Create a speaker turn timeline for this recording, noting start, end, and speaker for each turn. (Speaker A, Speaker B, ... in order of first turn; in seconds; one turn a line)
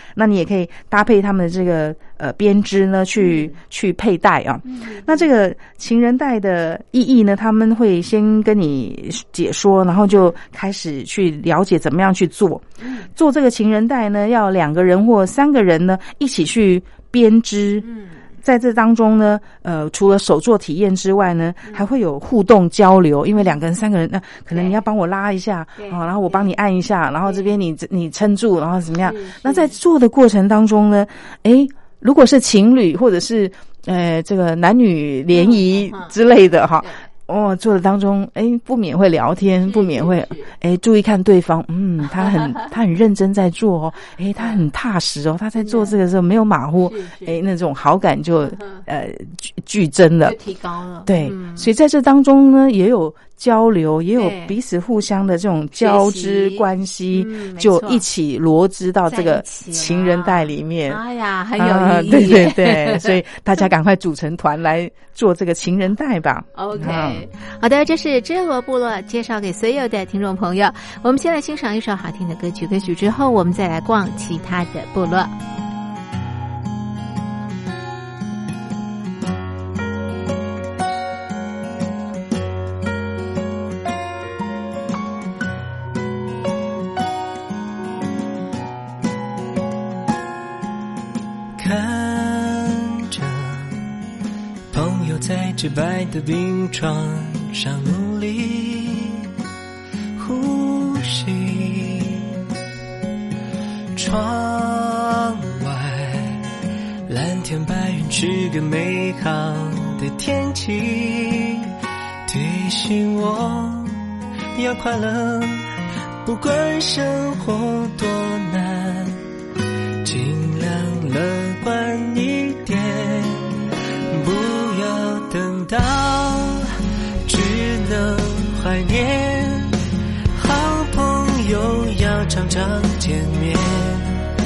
Speaker A: 0.1-17.9
Speaker B: 3.2-3.6
Speaker B: 4.7-5.3
Speaker B: 12.8-13.1
Speaker B: 17.8-18.2
Speaker A: 18.4-50.4
Speaker B: 24.5-24.8
Speaker B: 25.8-26.6
Speaker B: 27.2-27.5
Speaker B: 29.0-29.8
Speaker B: 35.3-36.1
Speaker B: 39.6-40.5
Speaker B: 44.4-44.6
Speaker B: 45.6-46.0
Speaker B: 46.8-47.4
Speaker B: 48.6-48.8
Speaker B: 50.2-51.7
Speaker A: 51.1-61.0
Speaker B: 54.2-54.5
Speaker B: 55.8-58.0
Speaker B: 59.1-63.2
Speaker A: 61.6-67.2
Speaker B: 66.6-75.3
Speaker C: 91.6-93.9
Speaker C: 94.7-99.3
Speaker C: 100.2-102.3
Speaker C: 103.9-106.5
Speaker C: 107.1-111.7
Speaker C: 112.3-114.0
Speaker C: 114.5-115.7
Speaker C: 116.2-119.2
Speaker C: 120.0-129.8
Speaker C: 130.3-134.3